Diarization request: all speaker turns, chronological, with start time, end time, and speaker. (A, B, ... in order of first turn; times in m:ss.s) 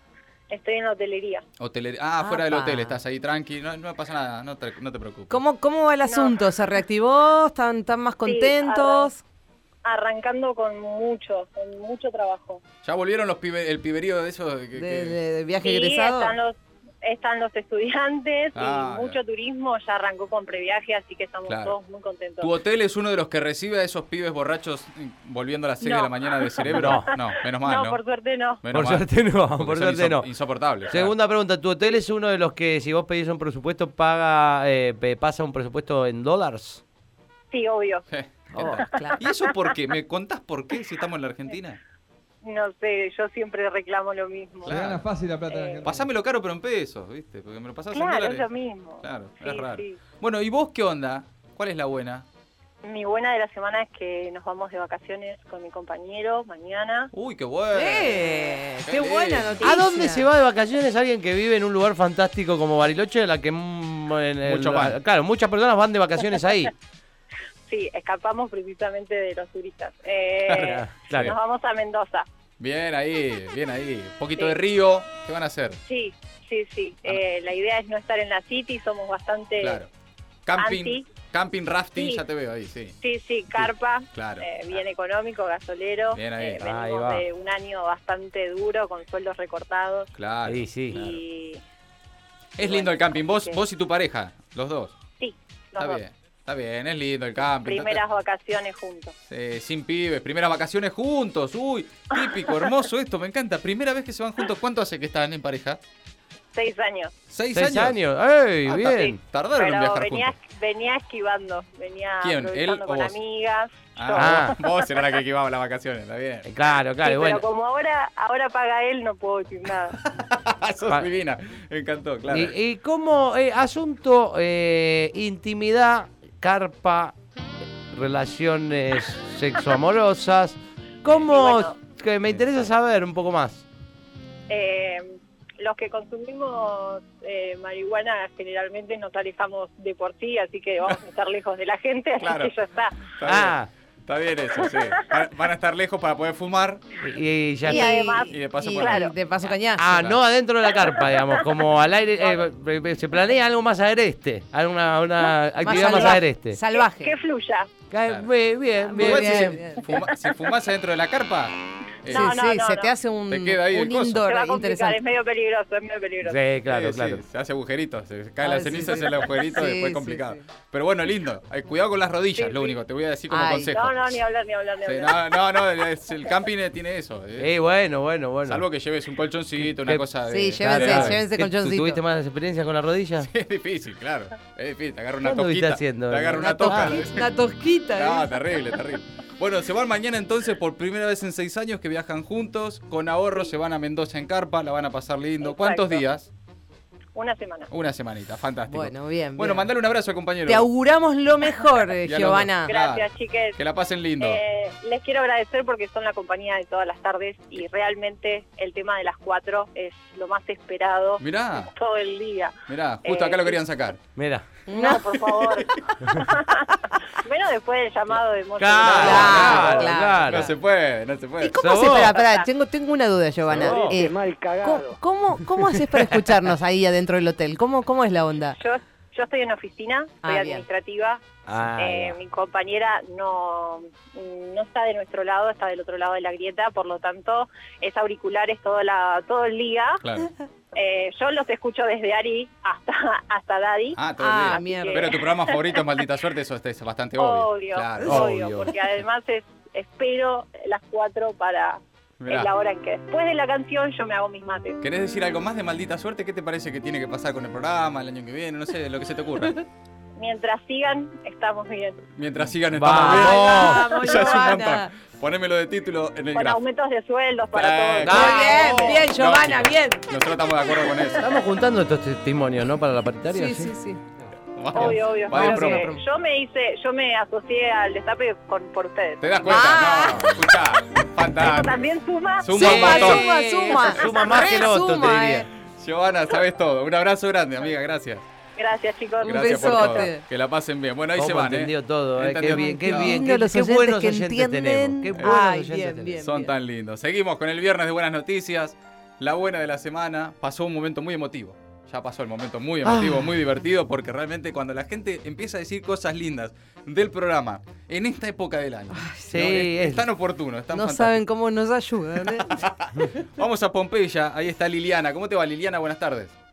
0:00.5-0:01.4 A
0:01.6-0:05.4 B
0:02.2-0:03.0 C
0:05.3-0:09.2 C
0:06.0-0:06.4 A
0:08.2-0:09.1 A
0:09.8-0:12.6 A
0:12.8-0:15.2 B
0:14.7-0:16.3 C
0:15.6-0:22.5 A
0:18.5-0:19.2 B
0:21.5-0:21.7 B
0:22.4-0:28.0 B
0:25.8-0:28.6 A
0:26.6-0:27.1 D
0:28.6-0:31.1 B
0:28.7-0:30.3 D
0:30.9-0:36.8 D
0:37.5-0:38.0 A
0:38.1-0:41.8 B
0:38.5-0:39.2 C
0:42.4-0:44.8 A
0:44.6-0:45.0 B
0:44.6-0:46.1 E
0:45.5-0:45.8 A
0:45.8-0:48.5 B
0:47.9-0:50.0 A
0:49.0-0:52.2 B
0:52.8-0:57.1 A
0:57.1-0:59.6 B
0:57.7-1:00.2 C
0:59.6-1:06.7 D
1:04.4-1:05.0 B
1:07.7-1:12.2 A
1:10.5-1:11.3 B
1:10.6-1:11.3 D
1:12.6-1:15.8 B
1:15.8-1:19.8 A
1:19.6-1:19.9 B
1:20.4-1:22.9 B
1:20.6-1:21.0 A
1:22.0-1:22.2 A
1:23.0-1:30.1 A
1:24.1-1:24.8 B
1:26.1-1:26.6 B
1:26.6-1:27.2 D
1:30.2-1:31.2 B
1:30.5-1:31.0 D
1:30.9-1:31.6 A
1:32.6-1:35.0 B
1:32.6-1:33.6 A
1:35.2-1:36.0 A
1:35.8-1:38.0 B
1:37.6-1:39.1 A
1:39.3-1:45.8 B
1:46.5-1:47.1 A
1:47.3-1:48.0 B
1:47.5-1:49.2 D
1:48.6-1:50.4 B
1:49.6-1:54.7 A
1:52.2-1:53.2 B
1:54.0-1:56.5 B
1:54.1-1:54.5 D
1:56.4-1:57.4 D
1:57.0-2:00.0 A
2:00.0-2:02.5 B
2:02.3-2:07.1 D
2:07.9-2:13.6 D
2:11.2-2:11.8 A
2:12.2-2:12.7 B
2:14.5-2:23.1 A
2:22.2-2:22.5 B
2:23.2-2:26.8 B
2:23.2-2:23.7 D
2:24.7-2:25.0 A
2:27.0-2:27.9 D
2:27.6-2:29.8 C
2:27.6-2:29.1 A
2:28.3-2:29.1 B
2:29.8-2:36.6 D
2:29.9-2:30.2 B
2:30.8-2:31.4 A
2:35.6-2:37.1 C
2:35.6-2:36.2 A
2:36.7-2:37.7 A
2:37.9-2:39.6 D
2:38.8-2:39.9 C
2:39.0-2:42.4 B
2:42.0-2:42.9 A
2:42.1-2:45.0 C
2:43.3-2:44.3 B
2:44.2-2:46.4 A
2:46.2-2:47.2 D
2:46.7-2:54.2 B
2:48.4-2:50.4 C
2:52.4-2:52.8 A
2:53.3-2:53.7 C
2:53.7-2:55.4 A
2:54.8-2:57.5 B
2:57.4-2:58.6 D
2:58.4-3:01.2 B
2:59.7-3:00.0 D
3:00.3-3:02.0 C
3:00.6-3:03.3 D
3:03.2-3:07.3 B
3:05.2-3:06.9 D
3:06.3-3:08.3 C
3:07.9-3:16.3 B
3:15.4-3:16.0 A
3:17.1-3:17.7 A
3:17.7-3:20.7 B
3:18.7-3:19.7 C
3:20.4-3:22.7 C
3:22.0-3:24.4 B
3:22.7-3:23.6 A
3:24.2-3:33.6 A
3:31.2-3:31.7 B
3:32.7-3:34.0 B
3:34.2-3:34.4 D
3:34.7-3:35.0 C
3:34.7-3:39.6 A
3:38.6-3:40.5 D
3:38.8-3:41.7 B
3:38.9-3:40.5 C
3:41.4-3:48.6 C
3:41.6-3:42.2 D
3:42.2-3:42.5 A
3:43.5-3:44.0 D
3:43.7-3:45.0 E
3:48.6-4:00.0 A
3:50.2-3:50.6 C
3:51.4-3:52.2 D
4:00.0-4:00.3 B
4:00.7-4:05.8 A
4:03.9-4:08.3 B
4:04.2-4:05.0 C
4:07.2-4:14.8 A
4:08.0-4:08.7 D
4:12.2-4:12.5 B
4:14.8-4:19.5 B
4:20.2-4:22.0 A
4:22.2-4:26.6 B
4:22.7-4:23.8 D
4:23.0-4:24.9 C
4:26.3-4:29.0 A
4:27.5-4:31.3 B
4:28.0-4:28.4 D
4:28.1-4:30.0 C
4:31.2-4:33.7 D
4:33.3-4:34.0 C
4:34.6-4:35.9 B
4:34.7-4:39.4 A
4:34.8-4:36.0 C
4:39.2-4:43.2 B
4:39.4-4:40.4 C
4:41.4-4:43.2 A
4:42.5-4:45.5 D
4:42.6-4:45.5 C
4:45.7-4:48.3 B
4:48.6-4:50.1 A
4:49.2-4:53.2 B
4:49.2-4:50.2 C
4:51.2-4:56.2 D
4:52.5-4:56.5 C
4:55.1-4:55.4 B
4:56.2-5:11.2 B
5:02.8-5:03.3 D
5:08.9-5:09.3 C
5:09.3-5:10.0 D
5:10.7-5:12.6 C
5:12.2-5:16.3 B